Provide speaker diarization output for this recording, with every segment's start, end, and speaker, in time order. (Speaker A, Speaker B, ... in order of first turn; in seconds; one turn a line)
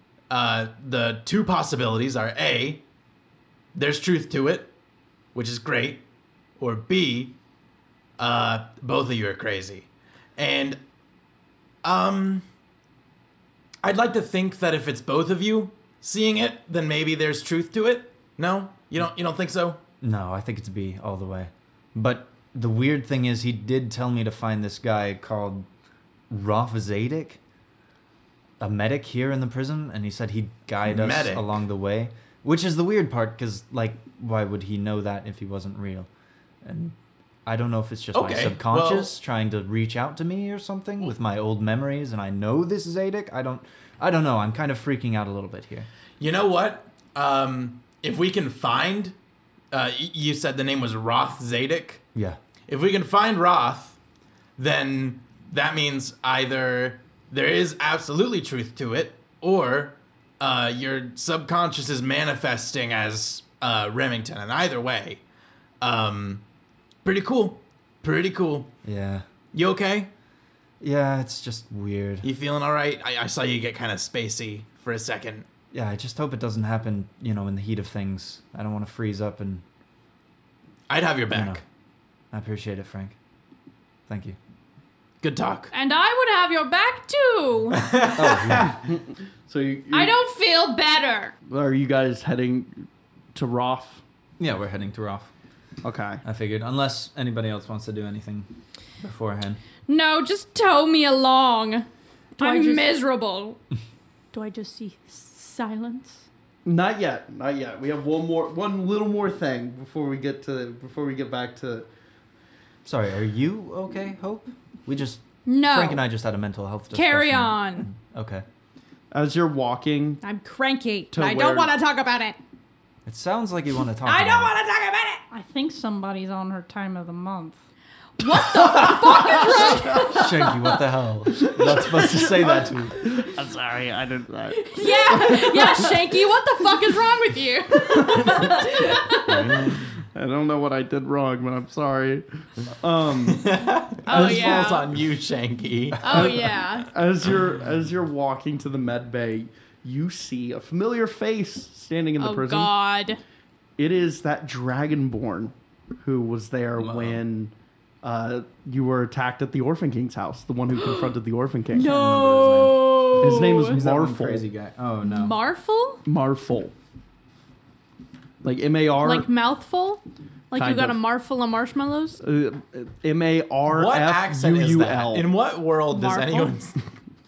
Speaker A: 0.3-2.8
Speaker A: 3.7-4.7
Speaker A: 5.3-6.0
Speaker A: 6.6-7.3
Speaker A: 8.2-10.8
Speaker A: 11.8-12.5
Speaker A: 13.8-19.8
Speaker B: 20.0-25.7
Speaker B: 26.3-27.4
Speaker B: 28.6-36.1
Speaker A: 30.9-31.6
Speaker B: 36.6-37.0
Speaker B: 37.5-45.9
Speaker A: 38.1-39.1
Speaker A: 46.2-49.1
Speaker A: 49.7-52.0
Speaker A: 52.7-54.0
Speaker A: 54.6-65.2
Speaker A: 65.8-66.4
Speaker A: 67.0-68.8
Speaker B: 68.8-69.2
Speaker A: 69.5-70.1
Speaker B: 70.8-72.3
Speaker A: 72.2-75.5
Speaker B: 75.7-79.6
Speaker A: 80.9-81.6
Speaker B: 81.3-81.6
Speaker B: 82.3-83.2
Speaker B: 84.1-84.4
Speaker A: 85.2-85.7
Speaker C: 85.7-87.8
Speaker A: 87.7-88.7
Speaker B: 88.1-88.8
Speaker D: 88.5-90.2
Speaker C: 89.9-91.3
Speaker D: 91.5-94.0
Speaker B: 94.4-95.3
Speaker D: 95.8-96.2
Speaker B: 96.2-98.5
Speaker B: 99.0-99.6
Speaker C: 99.9-101.9
Speaker C: 102.4-103.6
Speaker E: 102.4-103.0
Speaker E: 104.3-106.3
Speaker D: 106.7-111.9
Speaker B: 112.8-118.5
Speaker C: 115.5-116.1
Speaker C: 116.9-117.9
Speaker D: 119.1-120.2
Speaker C: 120.2-122.4
Speaker D: 121.1-121.7
Speaker B: 123.0-124.5
Speaker C: 124.1-125.2
Speaker E: 125.2-127.6
Speaker C: 128.2-130.5
Speaker E: 128.9-130.5
Speaker B: 130.0-133.1
Speaker D: 131.4-136.1
Speaker C: 134.6-139.6
Speaker D: 137.8-138.9
Speaker A: 139.3-139.7
Speaker D: 140.1-144.6
Speaker A: 143.3-146.4
Speaker C: 144.1-144.9
Speaker C: 146.0-146.9
Speaker D: 146.0-152.8
Speaker C: 152.2-153.2
Speaker D: 153.8-162.1
Speaker B: 156.8-157.2
Speaker C: 161.7-163.8
Speaker B: 161.8-165.5
Speaker D: 163.2-164.5
Speaker C: 165.0-166.1
Speaker D: 166.1-166.7
Speaker D: 168.4-169.3
Speaker C: 169.0-172.2
Speaker D: 170.6-171.0
Speaker D: 172.2-175.3
Speaker A: 173.7-176.7
Speaker C: 175.9-176.6